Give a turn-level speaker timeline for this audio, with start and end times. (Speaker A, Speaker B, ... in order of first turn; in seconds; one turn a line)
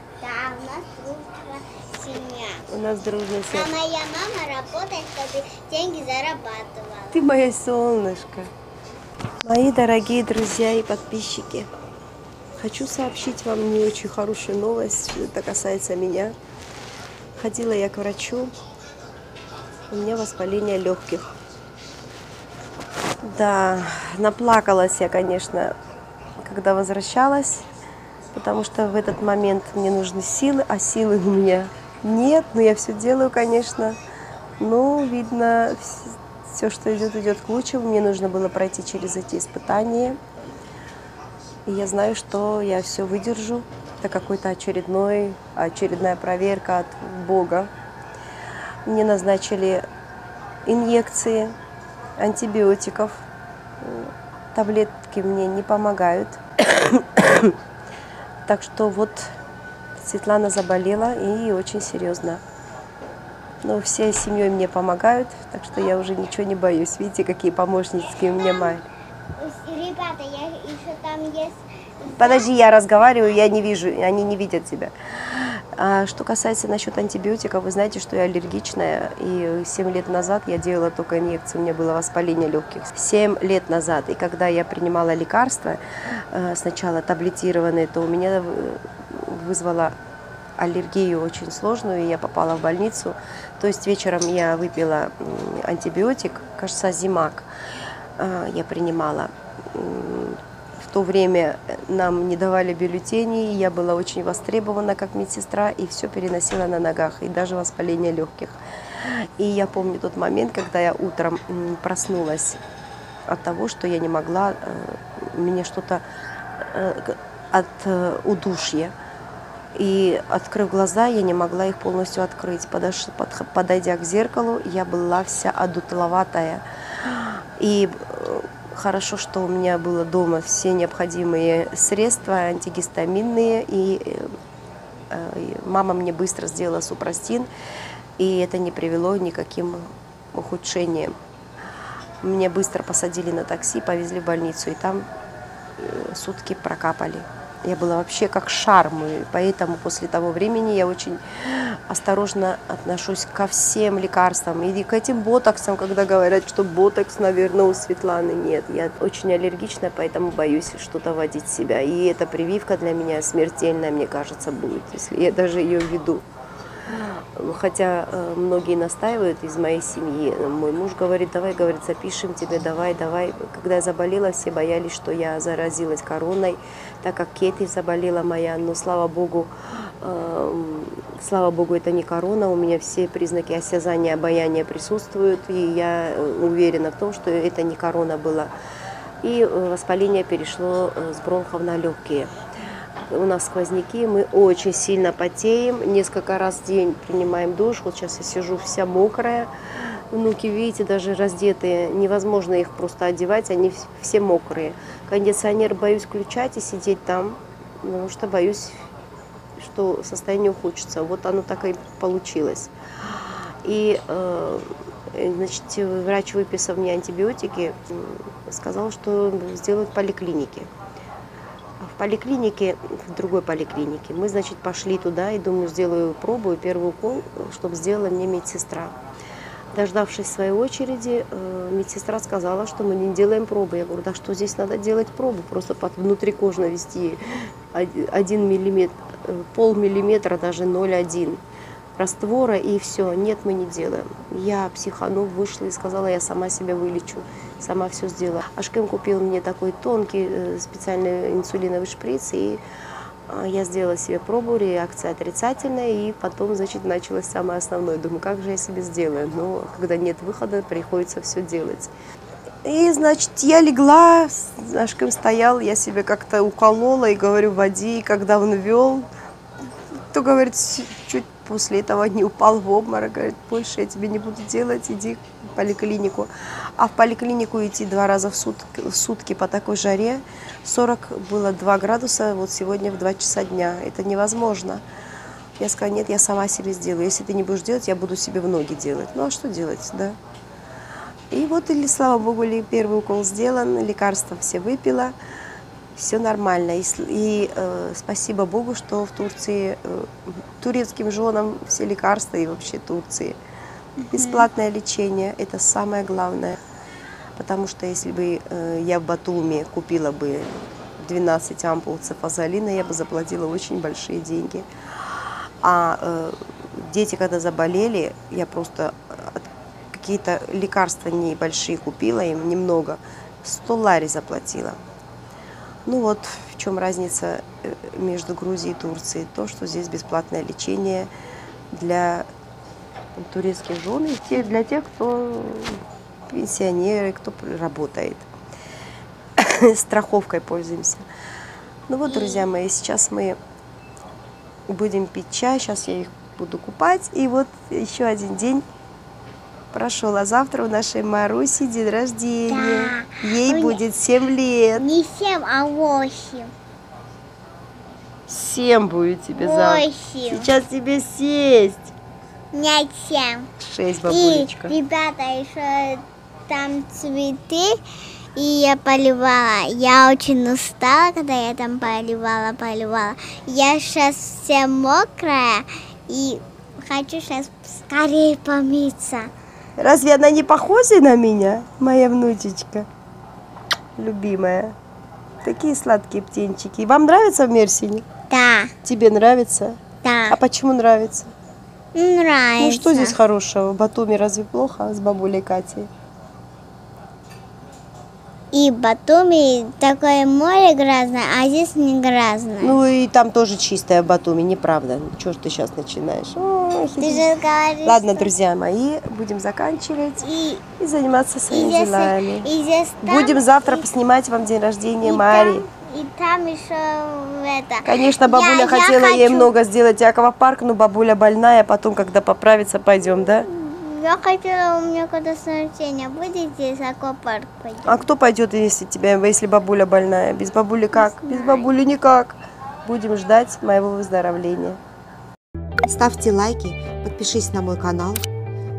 Speaker A: 0.2-2.6
Speaker B: 2.7-3.7
Speaker A: 3.5-7.2
Speaker B: 7.1-8.5
Speaker B: 9.4-11.7
Speaker B: 12.6-16.3
Speaker B: 17.4-18.5
Speaker B: 19.9-21.3
Speaker B: 23.2-25.7
Speaker B: 26.4-27.6
Speaker B: 28.3-34.0
Speaker B: 34.6-40.2
Speaker B: 41.6-47.7
Speaker B: 48.9-49.8
Speaker B: 50.6-51.5
Speaker B: 52.2-53.2
Speaker B: 53.8-57.5
Speaker B: 58.5-59.3
Speaker B: 60.0-62.4
Speaker B: 63.6-68.9
Speaker A: 68.2-68.8
Speaker A: 69.4-72.5
Speaker B: 72.1-89.9
Speaker B: 90.6-97.5
Speaker B: 98.2-112.6
Speaker B: 113.3-116.0
Speaker B: 116.6-118.9
Speaker B: 119.8-134.3
Speaker B: 135.1-137.5
Speaker B: 138.2-141.1
Speaker B: 142.2-145.1
Speaker B: 145.8-166.2
Speaker B: 166.9-188.5
Speaker B: 189.2-192.3
Speaker B: 193.1-199.5
Speaker B: 200.1-208.9
Speaker B: 209.6-220.7
Speaker B: 221.8-228.9
Speaker B: 229.7-237.2
Speaker B: 237.7-241.4
Speaker B: 242.0-252.6
Speaker B: 253.3-261.9
Speaker B: 262.6-269.1
Speaker B: 270.1-284.8
Speaker B: 285.6-290.2
Speaker B: 291.3-295.1
Speaker B: 295.9-303.4
Speaker A: 304.0-304.5
Speaker B: 304.1-306.6
Speaker B: 307.4-324.8
Speaker B: 325.9-331.1
Speaker B: 331.7-332.3
Speaker B: 333.1-338.3
Speaker B: 339.4-341.0
Speaker B: 341.9-343.4
Speaker A: 342.0-342.4
Speaker B: 344.7-348.6
Speaker B: 349.7-354.9
Speaker A: 352.5-353.8
Speaker A: 354.8-356.5
Speaker B: 358.3-361.9
Speaker A: 359.4-360.5
Speaker A: 362.5-363.5
Speaker B: 363.6-364.8
Speaker A: 364.1-367.8
Speaker A: 368.4-379.3
Speaker B: 379.8-382.9
Speaker B: 384.0-384.8
Speaker B: 385.4-388.0
Speaker A: 388.3-388.7
Speaker B: 388.8-391.3
Speaker A: 390.0-390.4
Speaker A: 391.9-393.2
Speaker B: 392.6-395.9
Speaker A: 398.5-402.8
Speaker B: 402.6-407.3
Speaker A: 407.0-408.3
Speaker B: 407.8-410.3
Speaker A: 410.2-410.6
Speaker B: 410.8-412.5
Speaker A: 411.5-413.9
Speaker B: 413.0-415.6
Speaker A: 415.0-419.5
Speaker B: 417.8-423.5
Speaker A: 423.3-428.0
Speaker B: 427.8-434.8
Speaker A: 430.9-431.7
Speaker B: 435.8-438.2